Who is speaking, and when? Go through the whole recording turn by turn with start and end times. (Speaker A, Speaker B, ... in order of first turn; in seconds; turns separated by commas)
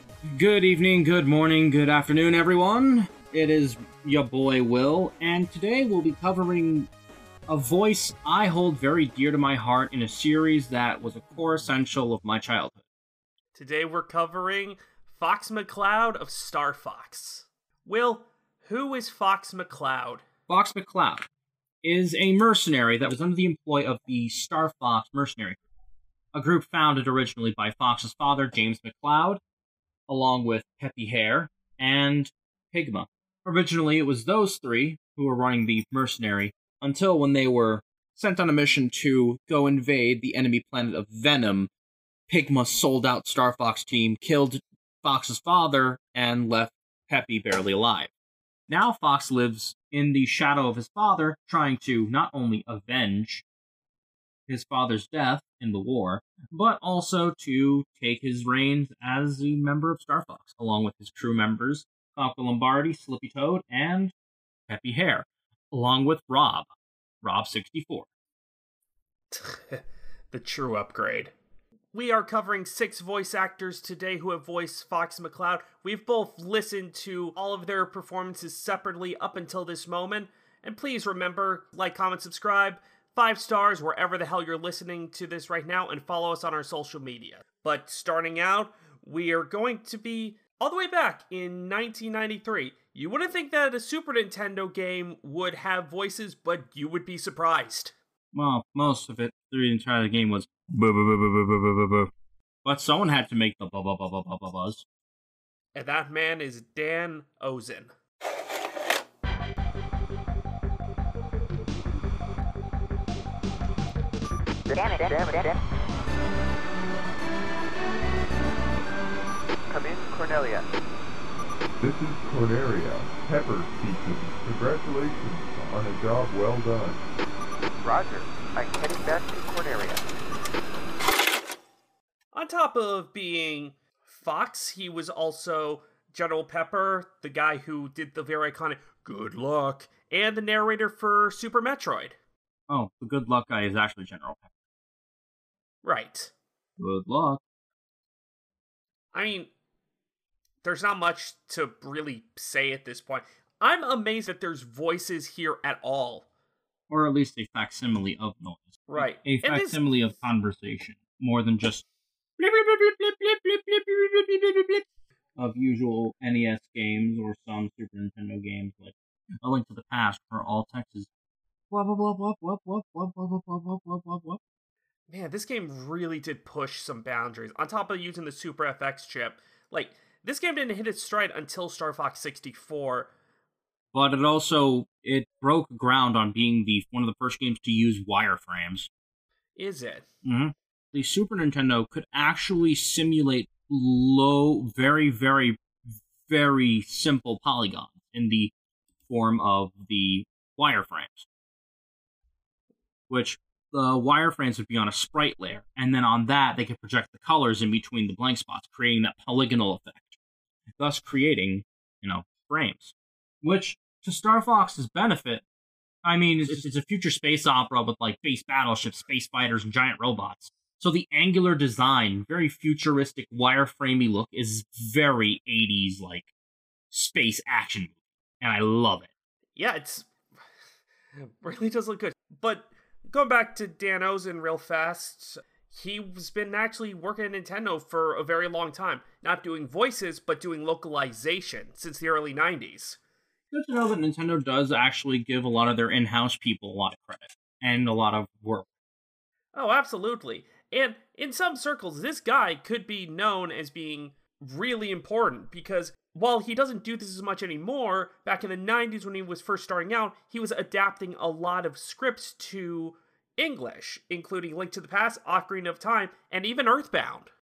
Speaker A: 0.2-6.9, Speaker A: 7.5-12.8, Speaker B: 13.5-20.2, Speaker A: 20.5-21.3, Speaker A: 21.8-25.6, Speaker A: 26.3-29.4, Speaker A: 30.1-41.7, Speaker A: 42.3-48.1, Speaker A: 48.7-53.4, Speaker A: 54.5-64.1, Speaker A: 64.7-66.7, Speaker A: 67.2-68.1, Speaker B: 69.3-71.3, Speaker B: 71.9-97.9, Speaker A: 98.3-102.1, Speaker A: 102.6-104.8, Speaker B: 105.8-107.9, Speaker C: 114.7-115.6, Speaker C: 119.7-120.7, Speaker D: 121.8-127.0, Speaker C: 127.8-130.1, Speaker B: 132.3-142.2, Speaker A: 142.7-144.5, Speaker B: 145.8-146.3, Speaker A: 146.8-147.4, Speaker B: 149.1-149.5, Speaker B: 150.6-156.2, Speaker A: 156.9-161.8, Speaker B: 158.9-159.8, Speaker A: 162.4-164.8, Speaker A: 165.4-171.1, Speaker A: 171.7-174.4, Speaker B: 175.1-183.1, Speaker A: 183.9-188.9, Speaker B: 189.6-190.1, Speaker A: 190.2-195.6, Speaker A: 196.2-198.5, Speaker A: 199.1-201.3, Speaker A: 203.1-210.2, Speaker A: 210.8-215.4, Speaker A: 216.0-226.3, Speaker A: 226.9-229.1, Speaker B: 229.6-230.1, Speaker B: 231.2-243.0, Speaker A: 243.5-248.7, Speaker B: 249.5-267.3